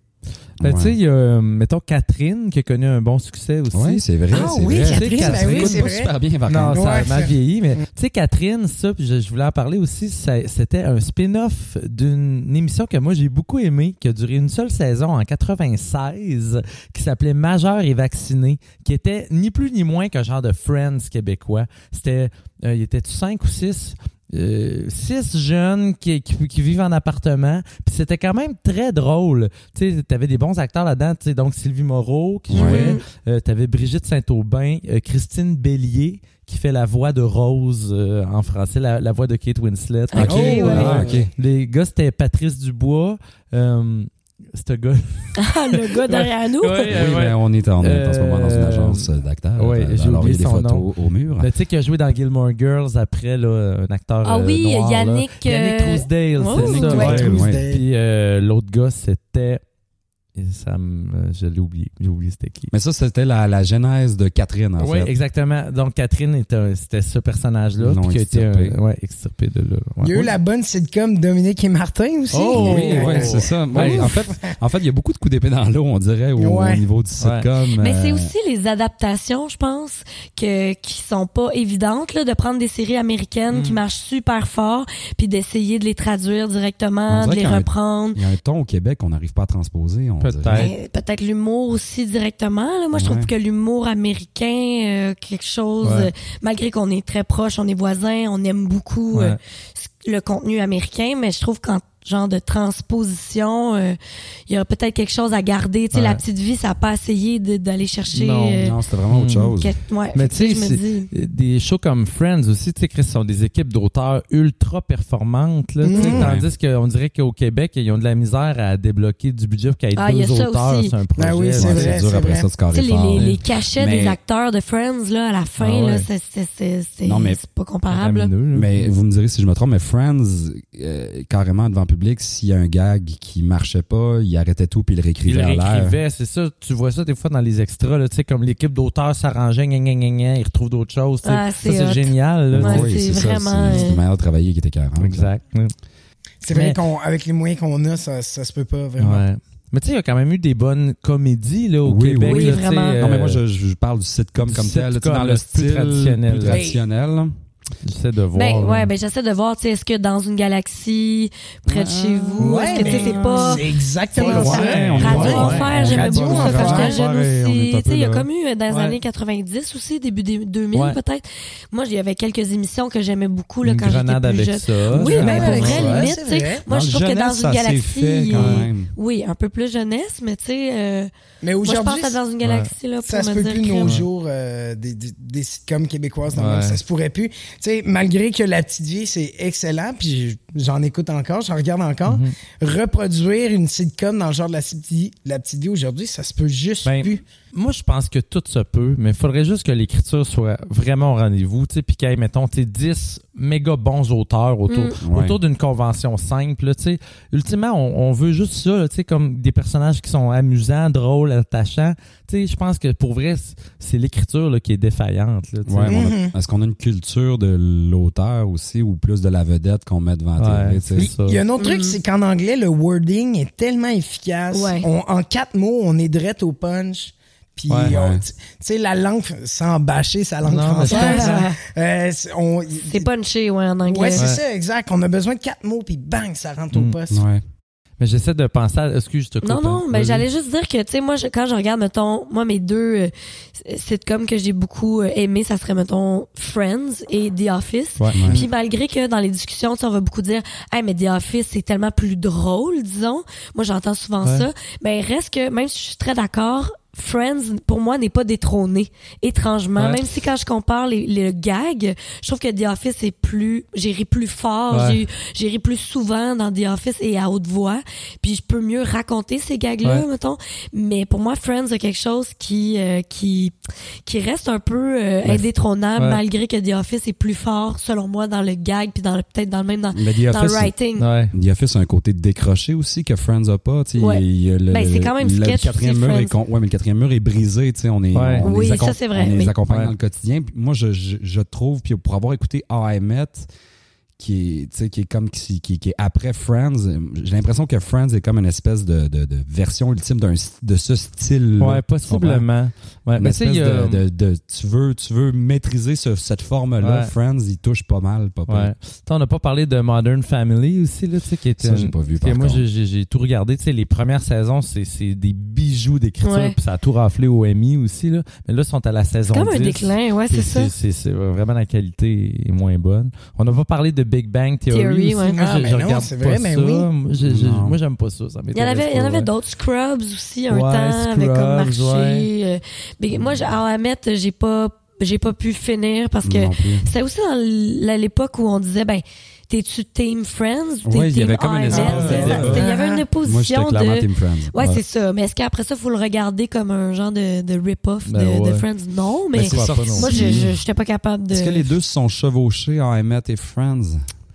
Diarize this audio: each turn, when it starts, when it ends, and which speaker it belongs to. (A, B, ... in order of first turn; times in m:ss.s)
0:00.6-0:01.0 A
0:00.6-0:50.9 B
0:03.7-0:06.8 A
0:04.3-0:06.1 C
0:06.7-0:07.8 C
0:32.5-0:32.9 A
0:32.5-0:33.0 D
0:40.1-0:41.0 D
0:40.1-0:41.3 A
0:40.2-0:41.2 C
0:45.4-0:46.9 D
0:46.8-0:51.5 A
0:51.4-0:59.6 B
0:54.2-0:57.3 D
0:56.6-0:57.6 A
0:56.6-0:57.8 C
1:00.3-1:02.7 B
1:02.7-1:05.1 A
1:04.8-1:10.3 B
1:07.8-1:08.8 A
1:10.0-1:14.1 C
1:12.3-1:13.1 D
1:12.3-1:14.2 B
1:12.6-1:18.3 A
1:16.4-1:16.8 C
1:17.2-1:17.5 B
1:17.8-1:28.2 D
1:23.5-1:23.8 B
1:27.1-1:30.7 A
1:30.2-1:30.7 B
1:30.5-1:44.0 D
1:32.9-1:33.3 A
1:35.8-1:36.1 B
1:39.1-1:39.4 B
1:44.5-1:48.8 D
1:45.9-1:46.2 B
1:48.1-1:49.5 B
1:48.6-1:49.7 A
1:49.6-1:51.1 D
1:50.1-2:02.0 B
1:55.8-1:56.3 C
1:56.0-1:56.5 A
2:00.0-2:00.9 D
2:01.2-2:02.5 C
2:01.6-2:04.2 A
2:02.7-2:08.3 D
2:03.1-2:03.4 B
2:05.6-2:06.0 B
2:07.0-2:07.4 A
2:07.9-2:08.9 B
2:08.5-2:16.0 A
2:15.2-2:23.0 B
2:21.2-2:24.0 D
2:22.5-2:25.3 A
2:25.0-2:25.7 B
2:26.4-2:29.3 C
2:26.5-2:26.8 B
2:29.0-2:33.4 B
2:31.8-2:37.3 A
2:32.2-2:33.0 D
2:34.4-2:36.6 B
2:36.5-2:36.8 C
2:37.8-2:38.9 B
2:38.3-3:01.1 D
2:41.6-2:42.8 A
2:42.4-2:47.0 C
2:42.7-2:43.6 B
2:44.2-2:46.8 B
2:44.2-2:48.3 A
2:48.7-2:49.0 B
2:53.6-2:56.1 B
2:55.0-2:56.6 C
2:55.0-2:55.9 A
2:56.7-2:58.9 A
2:58.3-2:58.7 B
3:01.4-3:02.2 C
3:01.6-3:04.0 D
3:02.4-3:02.7 B
3:03.0-3:17.2 C
3:06.3-3:06.8 B
3:12.0-3:12.3 B
3:16.8-3:36.1 B
3:24.7-3:24.9 D
3:25.0-3:25.4 A
3:35.6-3:41.1 A
3:35.9-3:36.3 C
3:40.4-3:41.4 B
3:41.0-3:53.1 C
3:41.6-3:42.0 D
3:44.5-3:44.8 D
3:47.7-3:47.9 B
3:47.8-3:48.2 A
3:50.4-3:51.4 B
3:50.9-3:51.6 D
3:52.8-3:54.3 D
3:53.8-3:57.2 C
3:54.2-3:54.4 B
3:57.1-3:57.4 A
3:58.0-4:00.2 B
3:59.4-4:33.5 D
4:08.0-4:08.4 B
4:08.1-4:08.4 A
4:24.7-4:25.0 B
4:34.0-4:41.1 D
4:39.9-4:40.7 A
4:41.0-4:41.3 B
4:41.3-4:53.5 A
4:44.0-4:46.3 D
4:48.1-4:48.4 B
4:48.4-4:49.5 D
4:54.2-5:02.4 A
5:01.6-5:04.0 B
5:03.2-5:08.7 A
5:06.8-5:07.1 B
5:08.5-5:29.3 B
5:11.6-5:12.6 A
5:16.2-5:16.5 D
5:19.3-5:20.7 D
5:24.7-5:25.4 D
5:25.4-5:26.9 C
5:27.2-5:27.8 A
5:28.5-5:51.7 D
5:30.5-5:32.3 B
5:36.2-5:36.8 A
5:40.8-5:42.7 A
5:41.7-5:42.6 B
5:41.7-5:43.0 C
5:43.2-5:44.8 A
5:48.0-5:48.6 B
5:49.3-5:50.6 A
5:49.5-5:50.4 B
5:51.3-5:54.0 A